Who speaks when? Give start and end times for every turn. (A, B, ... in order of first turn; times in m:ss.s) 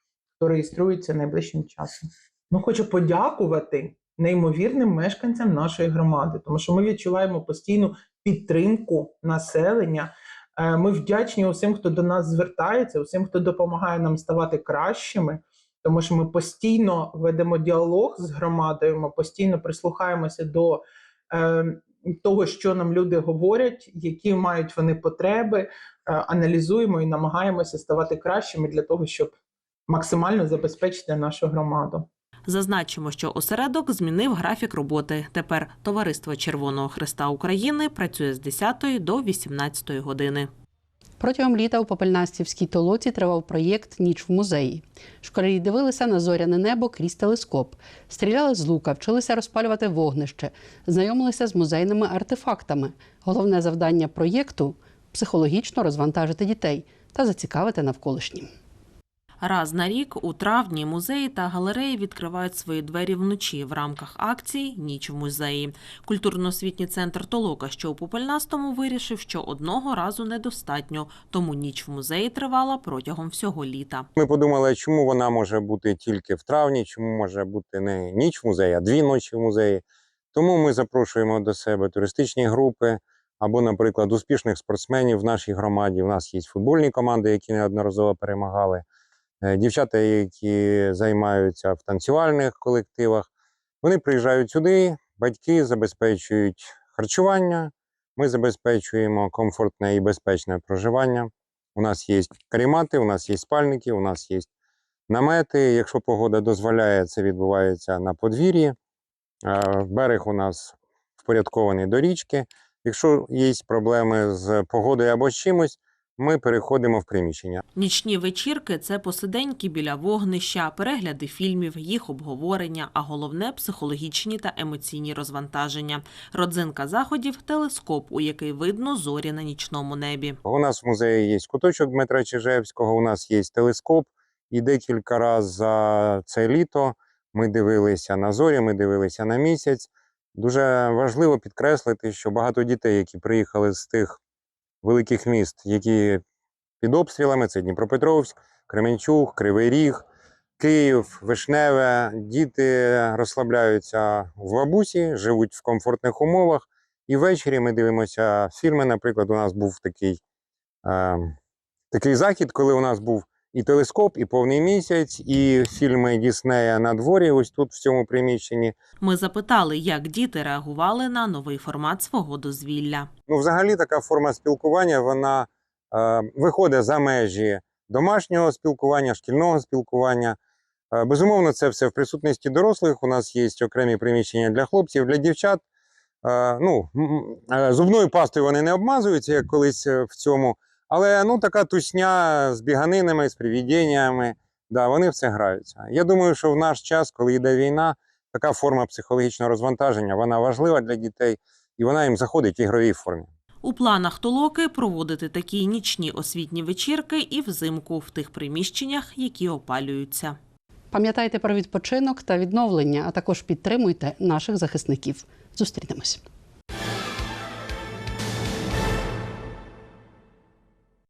0:00.4-0:29.3 A
0:29.9-0:32.1 A
0:32.5-0:40.5 B
0:41.2-0:58.5 C
0:59.4-1:14.0 B
1:14.2-1:28.8 D
1:29.4-1:33.3 D
1:33.8-1:44.5 D
1:45.1-1:48.8 D
1:49.4-1:57.6 D
1:57.8-2:10.4 B
2:10.4-2:24.2 D
2:24.8-2:26.2 D
2:26.8-2:30.0 D
2:30.6-2:40.2 D
2:40.8-2:41.3 D
2:41.9-2:48.8 D
2:49.0-2:53.1 B
2:53.3-3:00.4 D
3:00.9-3:05.6 D
3:06.2-3:23.3 D
3:23.6-3:30.4 B
3:30.9-3:36.2 C